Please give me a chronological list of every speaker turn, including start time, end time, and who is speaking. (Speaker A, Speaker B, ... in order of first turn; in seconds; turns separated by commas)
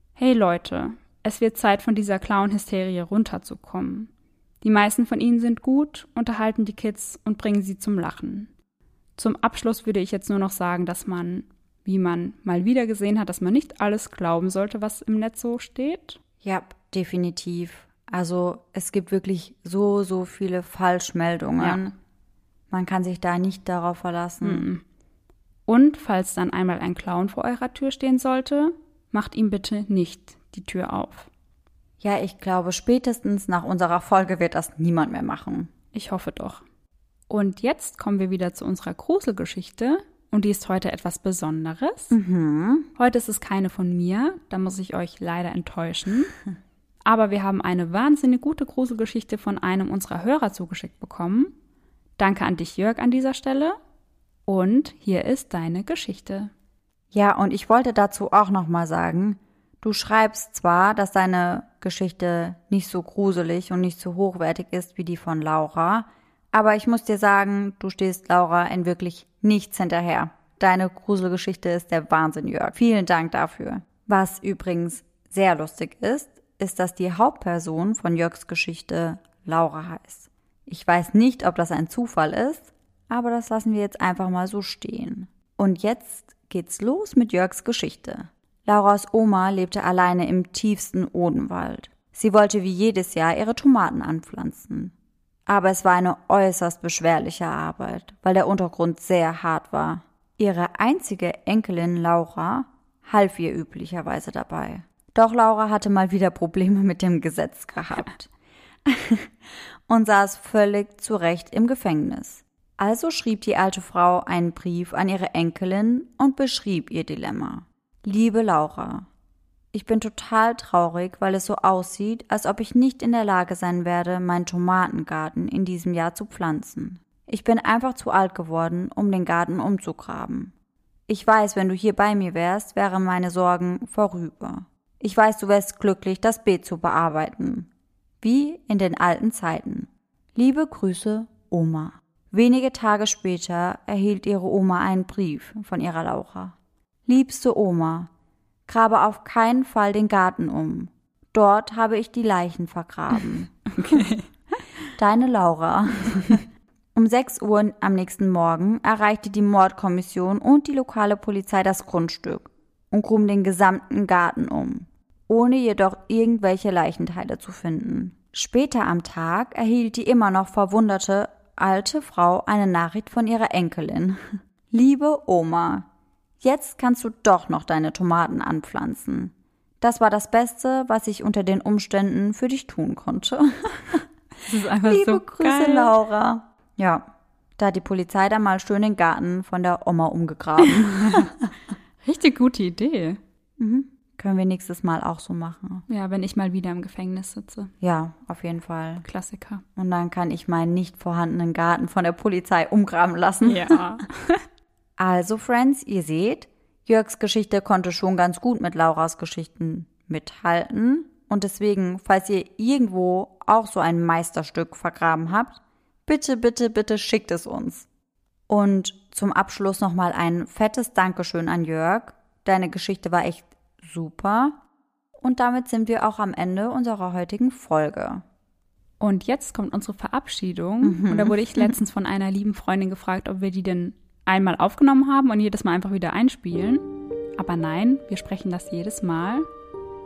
Speaker A: 0.2-4.1, Speaker A: 4.6-8.5, Speaker A: 9.2-16.2, Speaker B: 16.4-21.9, Speaker A: 21.6-21.9, Speaker B: 22.7-24.7, Speaker A: 24.4-24.8, Speaker A: 25.7-31.3, Speaker B: 32.0-35.7, Speaker A: 35.9-36.6, Speaker A: 37.3-42.2, Speaker B: 42.1-42.9, Speaker A: 43.0-46.3, Speaker A: 47.1-51.5, Speaker A: 52.2-53.8, Speaker A: 54.5-56.5, Speaker B: 57.1-94.9, Speaker B: 95.5-108.3, Speaker B: 108.8-119.1, Speaker B: 119.7-130.5, Speaker B: 131.1-137.7, Speaker B: 138.2-146.6, Speaker B: 147.1-148.1, Speaker B: 148.7-154.1, Speaker A: 153.7-154.3, Speaker B: 154.9-175.9, Speaker B: 176.4-184.1, Speaker A: 184.4-185.9, Speaker B: 184.8-187.1, Speaker B: 187.6-191.5, Speaker A: 190.6-191.3, Speaker A: 192.0-193.2, Speaker B: 193.6-195.8, Speaker A: 195.9-197.7, Speaker B: 197.8-199.1, Speaker A: 199.0-199.6, Speaker B: 199.8-203.8, Speaker A: 203.4-204.4, Speaker B: 205.0-217.9, Speaker B: 218.5-224.6, Speaker B: 225.2-228.2, Speaker A: 229.0-239.5, Speaker B: 230.8-231.7